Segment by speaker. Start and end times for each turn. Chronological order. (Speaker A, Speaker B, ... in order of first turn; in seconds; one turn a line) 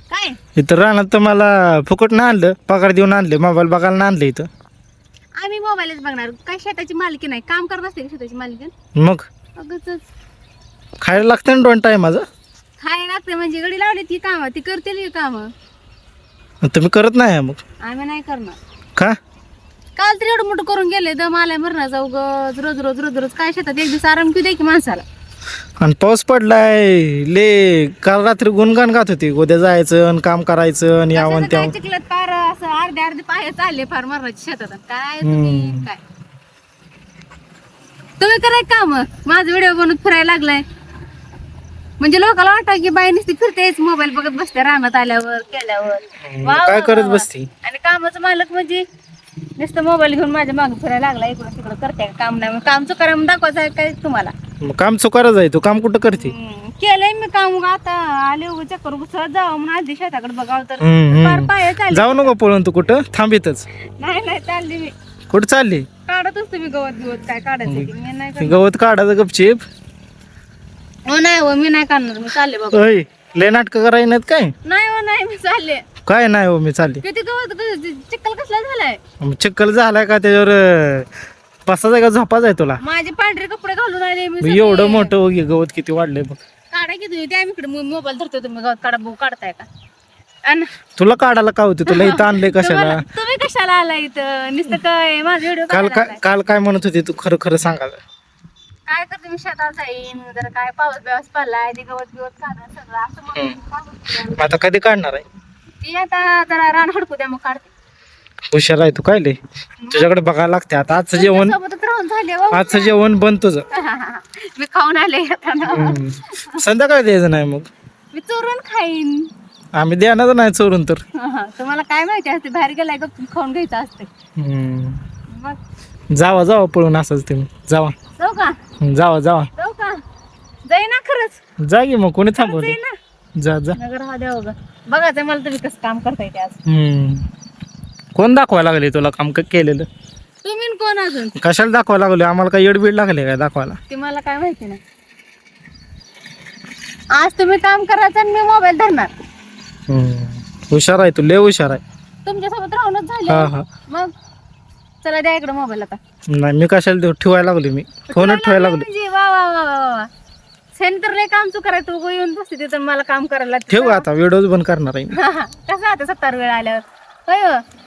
Speaker A: 0.1-0.4
Speaker B: 0.6-4.5
Speaker A: 5.4-8.7
Speaker B: 9.0-9.2
Speaker A: 9.6-10.1
Speaker B: 11.0-12.2
Speaker A: 12.8-15.5
Speaker B: 16.6-17.6
Speaker A: 17.8-18.6
Speaker A: 20.0-25.0
Speaker B: 25.8-31.7
Speaker A: 31.1-36.0
Speaker B: 35.2-35.9
Speaker A: 38.2-40.6
Speaker A: 42.0-48.8
Speaker B: 46.2-47.5
Speaker A: 49.6-54.3
Speaker B: 54.6-56.4
Speaker A: 56.2-62.3
Speaker B: 60.8-63.6
Speaker A: 64.0-64.9
Speaker B: 65.3-65.9
Speaker A: 66.1-68.6
Speaker B: 67.7-69.6
Speaker A: 71.1-72.8
Speaker B: 72.7-74.5
Speaker A: 74.7-75.9
Speaker B: 76.1-77.0
Speaker A: 77.0-79.0
Speaker B: 79.2-81.1
Speaker B: 81.7-82.8
Speaker A: 82.8-85.1
Speaker B: 84.4-86.4
Speaker A: 86.7-89.7
Speaker B: 91.0-93.0
Speaker A: 91.9-96.3
Speaker B: 95.7-98.0
Speaker A: 98.9-104.5
Speaker B: 104.3-105.2
Speaker A: 105.8-107.7
Speaker B: 108.5-109.4
Speaker B: 109.9-111.6
Speaker A: 111.1-113.0
Speaker B: 112.5-113.7
Speaker A: 113.7-116.6
Speaker B: 115.7-117.7
Speaker A: 118.1-119.3
Speaker B: 119.8-121.0
Speaker A: 121.2-124.1
Speaker B: 124.4-125.0
Speaker A: 125.3-125.6
Speaker B: 126.2-128.0
Speaker A: 128.2-128.6
Speaker B: 128.8-129.5
Speaker A: 129.6-130.0
Speaker A: 130.7-131.4
Speaker B: 131.7-132.8
Speaker A: 132.4-132.9
Speaker B: 133.4-133.8
Speaker A: 133.8-136.6
Speaker B: 136.7-137.2
Speaker B: 138.2-139.9
Speaker A: 140.4-141.4
Speaker B: 141.4-143.8
Speaker A: 143.9-144.8
Speaker A: 147.1-149.1
Speaker B: 149.9-151.8
Speaker A: 152.2-154.1
Speaker B: 153.3-153.7
Speaker A: 155.0-156.0
Speaker B: 156.3-158.9
Speaker A: 158.1-160.1
Speaker A: 160.8-164.1
Speaker B: 163.7-165.2
Speaker A: 165.1-167.6